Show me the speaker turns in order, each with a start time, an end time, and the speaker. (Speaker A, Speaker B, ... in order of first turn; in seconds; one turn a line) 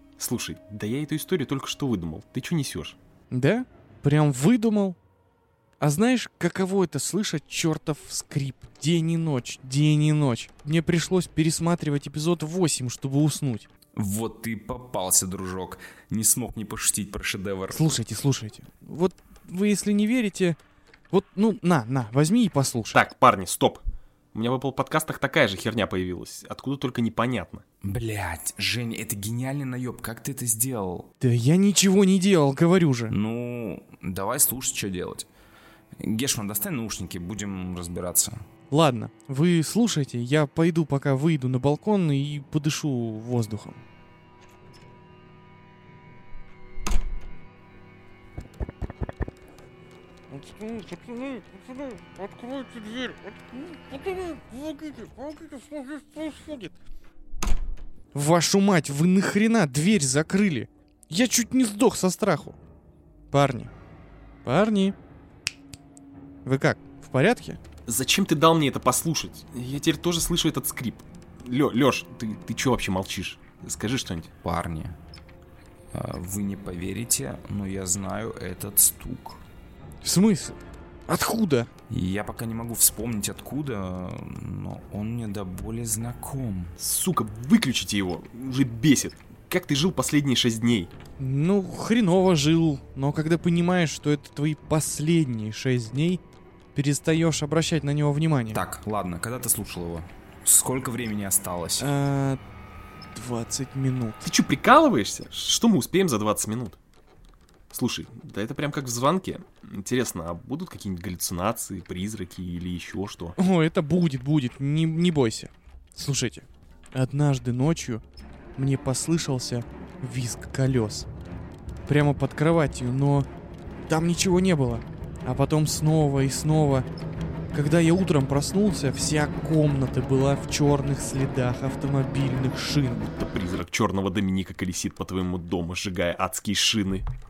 Speaker A: 0.2-3.0
Speaker B: 3.3-5.0
Speaker B: 5.8-13.7
Speaker C: 13.9-17.9
Speaker B: 17.7-20.6
Speaker B: 21.1-23.0
Speaker A: 22.9-27.6
Speaker C: 27.8-31.1
Speaker B: 31.2-33.1
Speaker C: 33.1-35.3
Speaker C: 36.0-38.4
Speaker B: 38.7-43.8
Speaker B: 50.3-56.7
Speaker B: 58.1-62.6
Speaker B: 63.3-63.7
Speaker B: 64.4-65.0
Speaker B: 66.4-67.6
Speaker A: 67.8-74.3
Speaker C: 74.4-75.0
Speaker C: 75.9-79.4
Speaker B: 80.0-81.7
Speaker C: 81.9-86.8
Speaker A: 86.8-90.9
Speaker B: 91.2-96.2
Speaker B: 96.7-98.6
Speaker C: 98.5-101.9
Speaker B: 101.8-102.4
Speaker B: 103.1-104.2
Speaker A: 104.2-106.8
Speaker A: 107.7-113.3
Speaker B: 113.4-118.0
Speaker B: 118.5-121.1
Speaker B: 121.8-123.3
Speaker B: 123.9-126.8
Speaker B: 127.5-133.1
Speaker A: 133.1-137.1